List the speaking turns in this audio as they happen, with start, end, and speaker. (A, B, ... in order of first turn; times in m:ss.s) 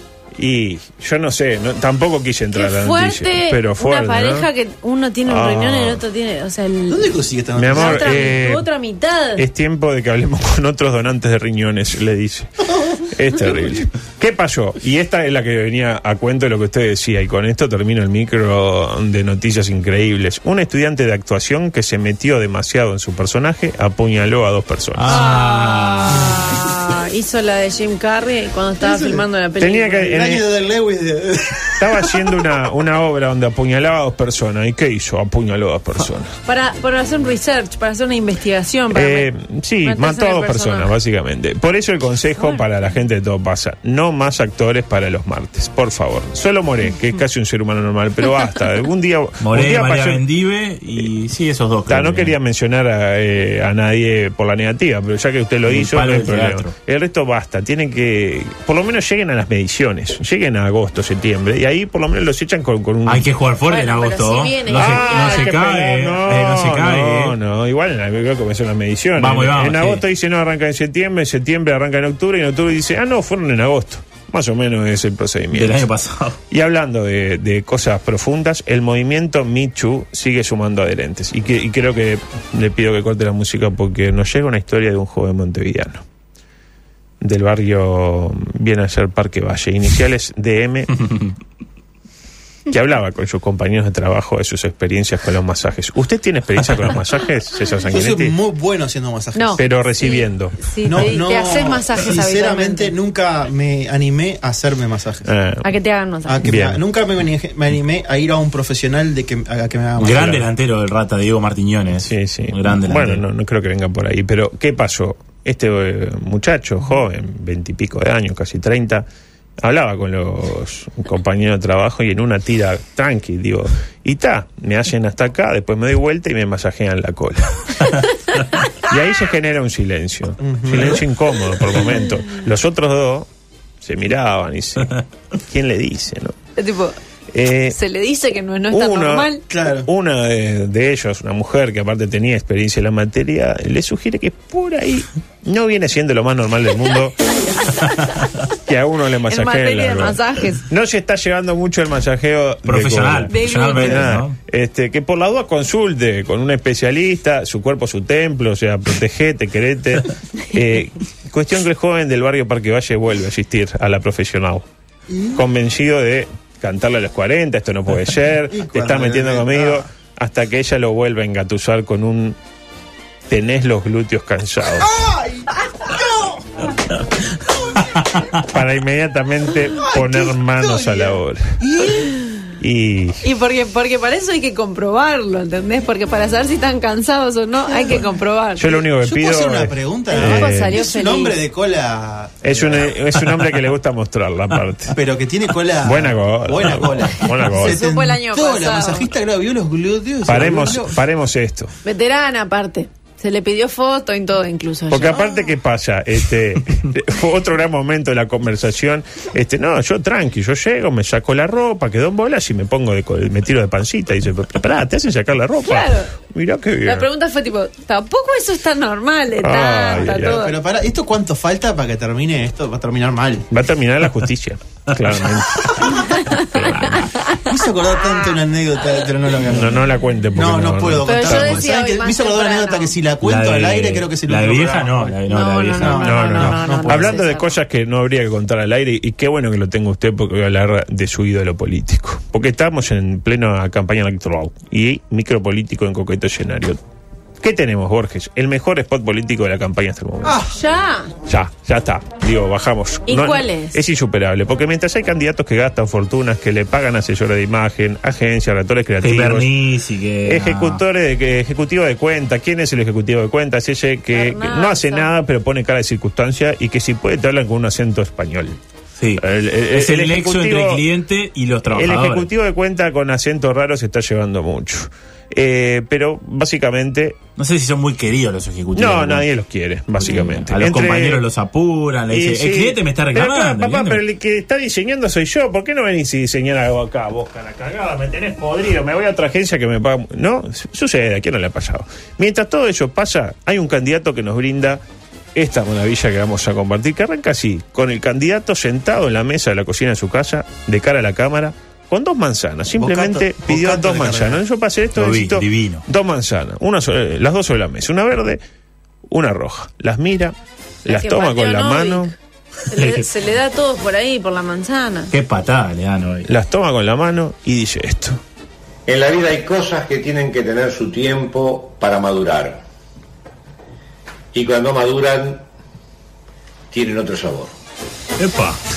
0:00.4-0:04.5 A
0:02.6-0:07.1 B
0:05.2-0:06.0 A
0:06.9-0:08.3 C
0:07.6-0:08.7 A
0:07.7-0:09.5 B
0:09.4-0:25.2 A
0:25.0-0:26.6 D
0:25.1-0:30.2 B
0:28.8-0:29.2 C
0:29.6-0:30.4 A
0:30.1-0:32.6 C
0:31.8-0:36.3 A
0:36.5-0:39.3 B
0:38.9-0:50.3 A
0:39.8-0:40.9 B
0:42.4-0:42.7 B
0:49.4-0:52.4 D
0:51.9-1:03.3 A
0:55.6-0:56.8 D
1:03.1-1:07.4 D
1:03.7-1:05.4 B
1:04.7-1:15.9 A
1:09.2-1:10.0 D
1:15.5-1:16.4 D
1:16.5-1:26.0 A
1:27.2-1:30.9 A
1:32.7-1:38.4 A
1:37.9-1:39.6 C
1:39.4-1:43.0 B
1:39.6-1:40.6 A
1:40.8-1:45.3 C
1:45.3-1:45.7 A
1:45.6-1:46.4 B
1:46.2-1:50.5 C
1:46.4-1:46.8 A
1:50.0-1:53.2 D
1:52.0-1:59.1 A
1:59.6-2:07.6 A
2:08.9-2:13.3 A
2:10.4-2:11.0 C
2:13.8-2:16.4 A
2:16.6-2:17.0 B
2:17.3-2:17.8 A
2:17.7-2:19.4 B
2:18.7-2:19.3 A
2:19.5-2:19.9 C
2:19.9-2:27.1 A
2:27.8-2:28.5 D
2:28.7-2:44.7 A
2:29.3-2:30.6 B
2:32.6-2:34.4 D
2:33.3-2:34.2 B
2:45.1-2:45.4 C
2:45.4-2:52.4 A
2:48.5-2:49.9 C
2:53.3-2:54.9 A
2:54.8-2:56.4 C
2:58.5-3:01.4 A
2:59.8-3:02.2 C
3:02.6-3:03.2 A
3:03.2-3:08.8 B
3:07.7-3:08.0 C
3:08.6-3:10.7 A
3:09.0-3:12.9 C
3:10.1-3:11.4 B
3:12.4-3:15.0 A
3:14.9-3:21.0 C
3:15.8-3:17.8 A
3:17.5-3:19.1 B
3:20.2-3:21.7 A
3:21.8-3:25.2 B
3:24.9-3:37.1 A
3:25.2-3:25.5 C
3:35.6-3:36.1 B
3:36.8-3:40.6 B
3:39.4-3:40.4 A
3:40.0-3:43.5 C
3:43.5-3:46.0 A
3:45.0-3:47.3 D
3:45.8-3:47.4 B
3:46.5-3:47.1 A
3:47.4-3:55.2 C
3:49.5-3:51.6 A
3:51.0-3:53.0 B
3:53.2-3:56.3 D
3:55.3-3:57.6 B
3:55.8-3:57.2 C
3:56.1-4:06.8 A
4:07.4-4:10.4 A
4:10.2-4:10.6 C
4:10.5-4:11.1 B
4:11.3-4:19.5 A
4:13.1-4:13.8 B
4:19.0-4:20.8 D
4:20.2-4:28.6 A
4:24.1-4:25.1 B
4:29.0-4:32.3 D
4:29.2-4:30.9 A
4:31.7-4:37.2 A
4:37.4-4:39.3 D
4:38.7-4:41.2 A
4:40.0-4:44.0 D
4:42.1-4:54.8 A
4:55.4-5:08.4 A
5:02.8-5:04.4 C
5:05.0-5:05.8 D
5:09.1-5:10.3 A
5:10.8-5:12.1 A
5:10.9-5:12.1 B
5:12.7-5:15.1 B
5:12.8-5:13.0 D
5:15.1-5:16.3 D
5:16.3-5:18.2 A
5:18.9-5:22.6 E
5:24.3-5:25.4 E
5:26.7-5:27.5 E
5:28.2-5:28.6 D